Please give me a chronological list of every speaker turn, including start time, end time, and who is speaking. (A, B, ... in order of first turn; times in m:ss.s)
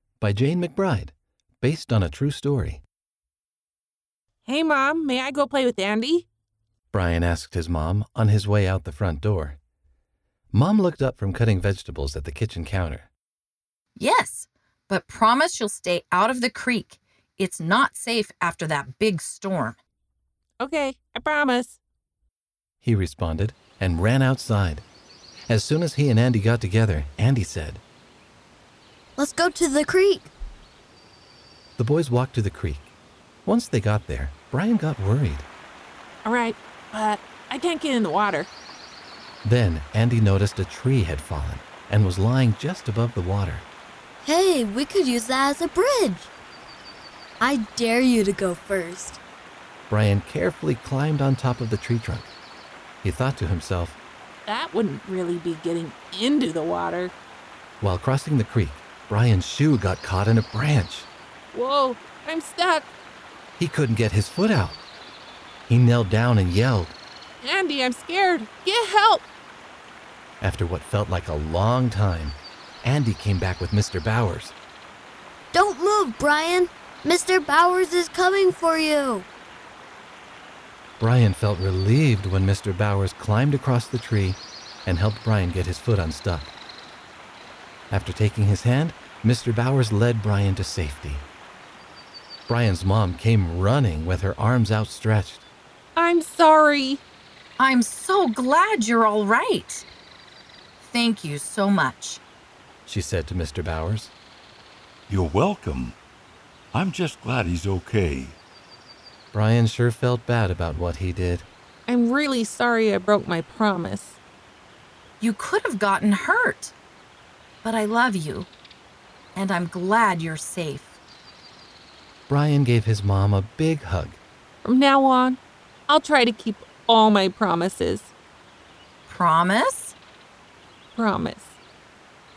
0:00.2-0:02.8 A
0:04.4-0:06.2 B
0:06.9-0:09.6 A
0:10.5-0:13.1 A
0:14.0-0:19.8 C
0:20.6-0:21.8 B
0:22.8-0:24.8 A
0:25.5-0:27.8 A
0:29.2-0:30.3 D
0:31.8-0:32.9 A
0:33.4-0:35.5 A
0:36.2-0:38.5 B
0:39.4-0:43.6 A
0:44.2-0:46.3 D
0:47.4-0:49.2 D
0:49.9-0:52.3 A
0:53.0-0:54.0 A
0:54.5-0:57.1 B
0:57.8-1:01.1 A
1:01.5-1:02.8 B
1:03.6-1:04.8 A
1:05.7-1:07.0 A
1:07.4-1:09.2 B
1:10.4-1:14.5 A
1:15.5-1:19.3 D
1:21.0-1:26.5 A
1:27.9-1:31.2 A
1:32.5-1:35.4 A
1:36.0-1:37.0 B
1:37.6-1:39.8 C
1:40.8-1:42.2 C
1:42.8-1:44.1 A
1:45.1-1:46.0 E
1:46.7-1:48.4 E
1:49.3-1:51.5 A
1:51.9-1:54.2 B
1:55.2-1:56.7 C
1:57.6-1:58.5 C
1:59.3-2:00.9 C
2:02.3-2:04.2 A
2:04.6-2:08.1 B
2:09.1-2:09.9 C
2:10.9-2:11.5 B